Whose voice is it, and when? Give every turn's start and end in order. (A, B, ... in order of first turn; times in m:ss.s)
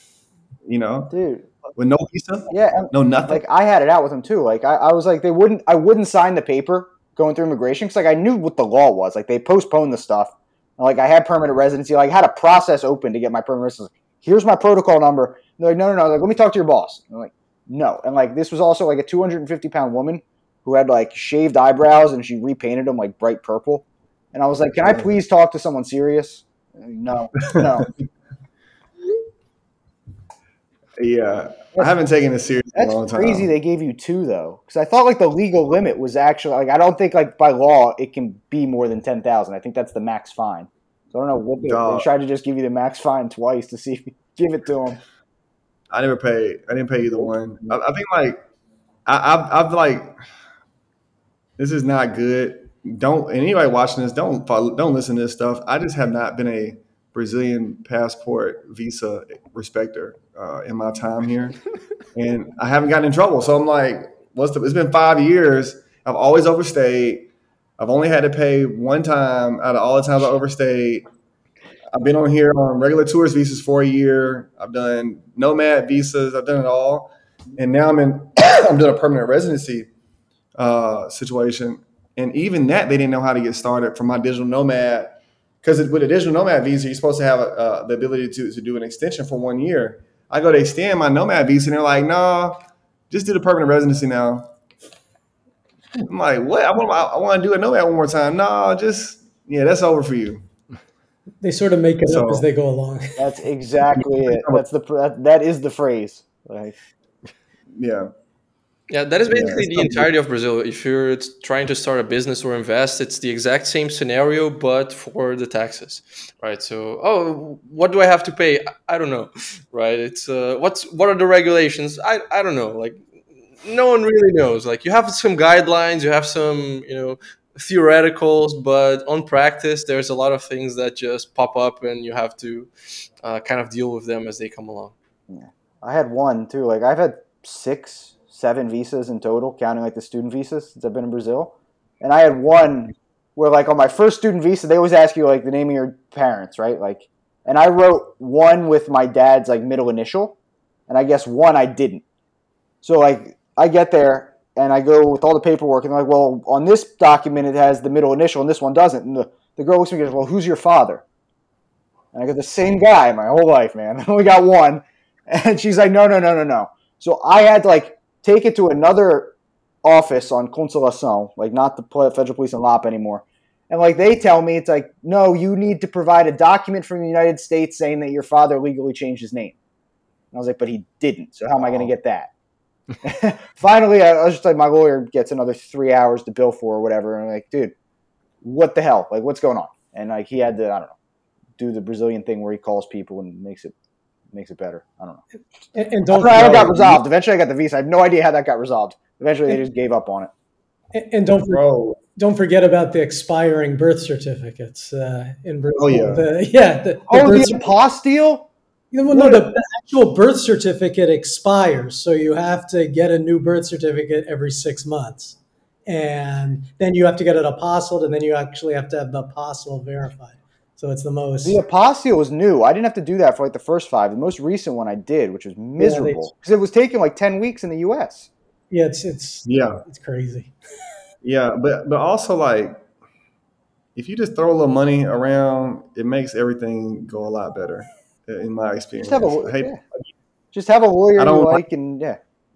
0:00.6-0:01.1 A
0:01.1-0:01.5 B
0:01.8-0:03.4 A
0:02.5-0:27.9 B
0:24.9-0:25.1 A
0:27.5-0:27.9 A
0:31.0-0:33.5 A
0:32.7-0:45.0 B
0:41.6-0:42.1 A
0:45.9-0:48.4 A
0:49.1-0:50.2 A
0:51.6-1:01.6 A
1:02.1-1:11.0 A
1:11.9-1:19.9 A
1:20.6-1:34.5 A
1:36.0-1:40.4 A
1:41.4-1:43.2 C
1:42.0-1:42.5 A
1:43.2-1:46.8 B
1:43.9-1:44.6 A
1:47.8-1:48.1 A
1:48.9-2:03.0 D
1:49.3-1:50.1 A
2:03.6-2:12.7 D
2:13.2-2:14.9 D
2:15.3-2:30.4 B
2:30.9-2:32.0 B
2:32.8-2:41.0 B
2:42.1-2:59.5 B
3:00.3-3:02.3 B
3:03.0-3:07.7 B
3:08.4-3:10.9 B
3:11.6-3:13.7 B
3:14.3-3:15.2 B
3:15.7-3:16.8 C
3:16.1-3:20.3 B
3:16.2-3:17.0 A
3:20.9-3:27.7 C
3:21.5-3:22.0 A
3:25.8-3:26.3 A
3:27.1-3:28.5 B
3:28.9-3:41.6 C
3:29.1-3:29.4 B
3:41.4-3:48.3 B
3:45.8-3:46.3 C
3:48.7-3:50.5 C
3:49.4-3:49.8 A
3:51.2-3:52.8 A
3:54.0-3:59.8 A
3:59.0-3:59.8 B
4:00.5-4:02.2 B
4:01.2-4:01.6 A